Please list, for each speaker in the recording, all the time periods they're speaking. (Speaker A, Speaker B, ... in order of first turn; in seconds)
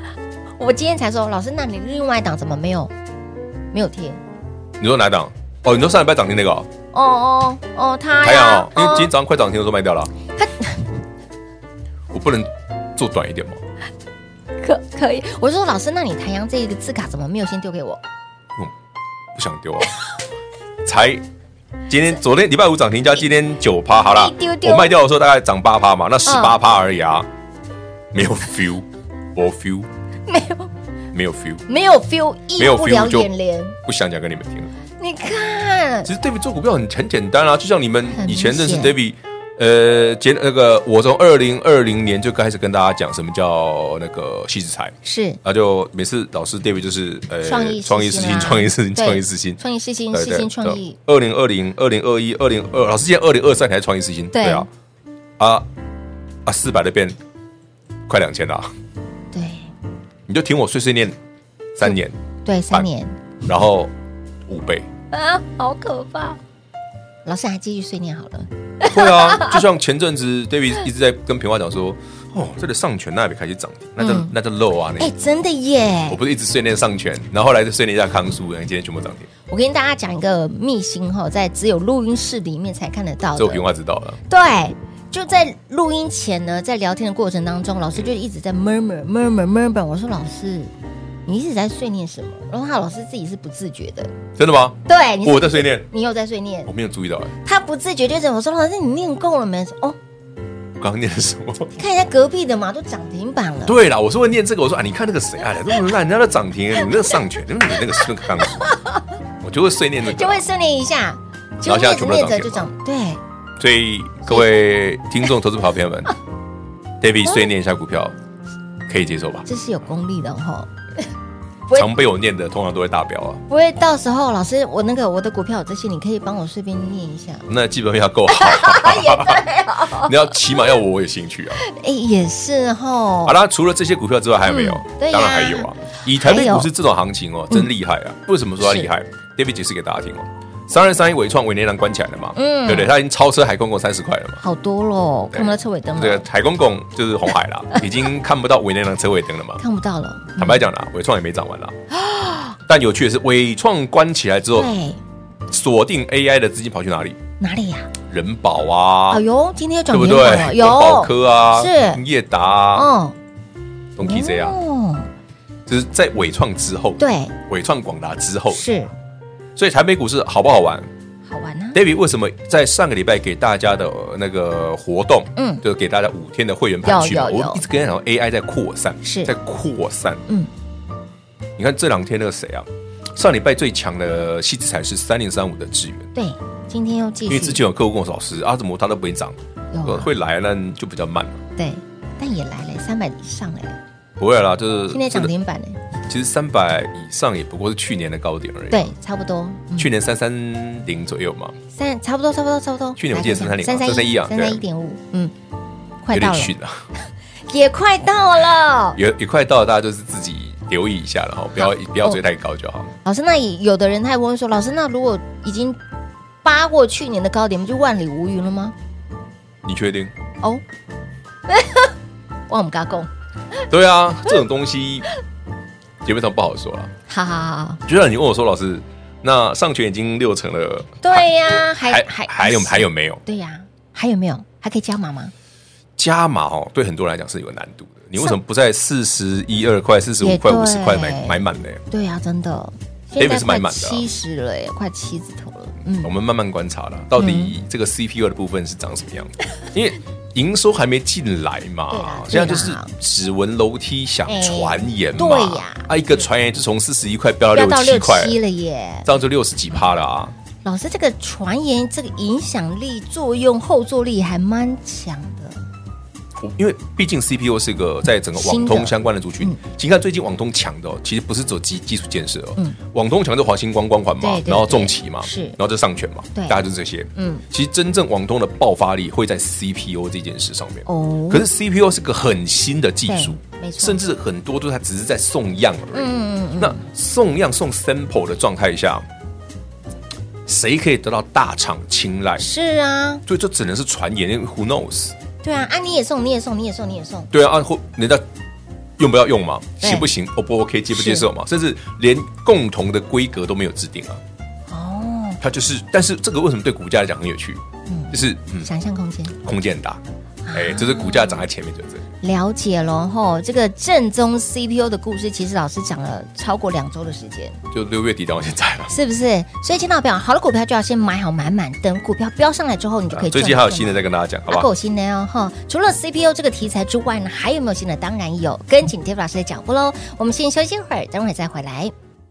Speaker A: 0.6-2.9, 3.7-4.2, 6.9-9.1, 10.4-10.8, 14.6-18.0, 24.0-24.9, 26.2-26.6, 30.3-30.7, 31.7-33.8, 35.0-36.1, 38.1-39.0, 45.0-45.4, 47.4-51.0, 54.3-54.7, 59.3-59.7, 61.8-63.2, 65.1-66.4, 67.2-69.6, 74.0-74.3, 75.0-76.2, 79.5-83.6, 84.3-90.7, 91.2-94.1, 94.9-96.7, 97.4-100.0, 101.8-103.8, 108.6-109.0, 110.0-113.2, 119.5-120.7, 123.5-127.5, 128.3-130.3, 131.6-133.4, 134.4-136.7, 138.6-138.9, 142.3-142.9, 144.4-146.2, 149.6-150.7, 151.9-152.6, 154.5-155.0, 157.4-157.9, 159.1-162.0, 162.7-163.1, 164.0-165.1, 167.0-167.3, 168.5-168.9, 171.3-171.8, 175.3-175.6, 176.8-177.6, 179.0-179.3, 186.1-187.6, 189.7-190.1, 191.6-193.8, 194.9-195.8, 198.7-199.9, 201.7-205.3, 206.0-206.5, 207.5-209.0, 211.6-212.2, 213.0-215.8, 216.4-218.7, 221.5-221.9, 222.5-223.1, 227.1-227.8, 231.0-235.3, 240.2-246.1, 247.2-247.5, 251.9-252.9, 254.3-255.9, 257.5-259.1, 260.6-265.6, 268.4-269.6, 274.2-275.6, 276.3-276.6, 277.1-277.4, 280.9-281.5, 283.1-284.0, 285.9-286.8, 292.4-293.2, 295.4-297.3, 299.8-300.1, 300.9-301.3, 304.7-305.4, 307.9-309.4, 310.4-311.4, 312.2-317.6, 318.9-331.9
Speaker B: 4.8-6.7, 8.2-10.1, 12.1-13.6, 19.3-19.9, 20.8-21.2, 21.9-27.3, 28.1-29.9, 31.1-31.6, 32.6-33.3, 33.8-34.7, 36.0-49.6, 50.1-54.7, 55.4-55.7, 56.4-57.2, 58.1-58.7, 60.3-61.1, 61.8-62.2, 63.4-63.9, 64.5-64.9, 68.8-75.1, 76.1-79.3, 83.3-84.2, 94.4-95.8, 96.7-97.3, 100.8-101.7, 103.7-108.7, 109.4-110.4, 111.6-112.7, 113.6-116.1, 117.0-118.1, 118.9-119.5, 121.7-123.4, 127.5-131.6, 133.2-144.4, 145.3-149.6, 150.4-151.8, 152.7-154.7, 155.5-157.2, 158.1-159.2, 159.9-162.9, 163.9-164.6, 165.7-168.7, 169.6-170.9, 171.7-180.2, 181.6-186.1, 187.3-191.4, 194.2-195.3, 196.1-198.9, 199.8-201.6, 203.0-204.6, 206.1-206.8, 208.9-212.9, 219.6-220.1, 223.7-225.1, 226.0-226.9, 227.8-233.2, 236.0-241.8, 243.2-244.1, 246.0-258.4, 259.0-260.3, 266.4-289.1, 290.5-292.5, 293.3-295.1, 297.3-298.2, 299.0-304.2, 305.4-308.7, 309.4-312.1, 317.7-318.9, 323.1-324.7